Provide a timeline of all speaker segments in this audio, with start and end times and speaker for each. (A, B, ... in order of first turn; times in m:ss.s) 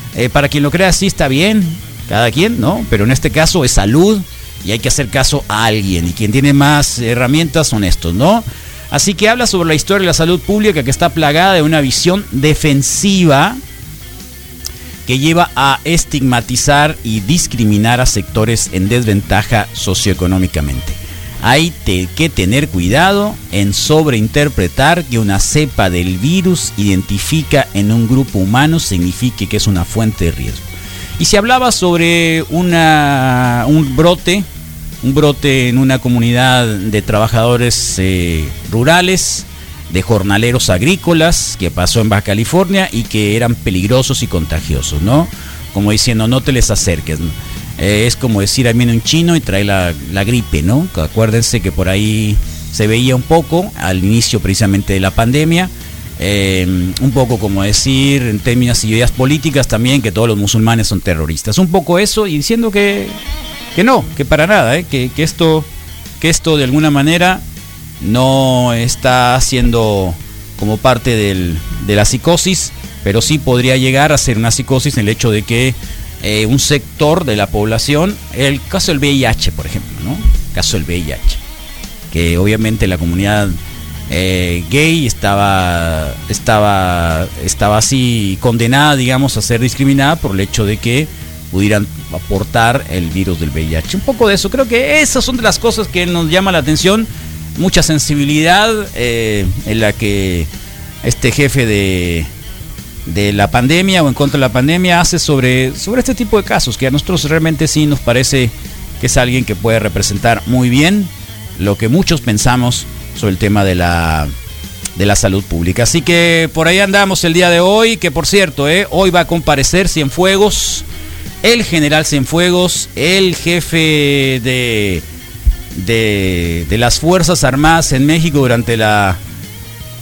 0:00.1-0:13.6 A
0:15.0-0:30.7 A
0:31.2-0:34.4 A
0:35.0-1:03.2 A
1:03.7-1:05.7 A
1:06.2-1:07.4 A
1:08.0-1:21.4 A
1:22.1-1:23.6 A
1:24.1-1:40.5 A
1:41.0-1:42.3 A
1:43.0-1:54.3 A
1:55.0-2:00.8 A
2:01.4-2:05.0 A
2:05.7-2:09.2 A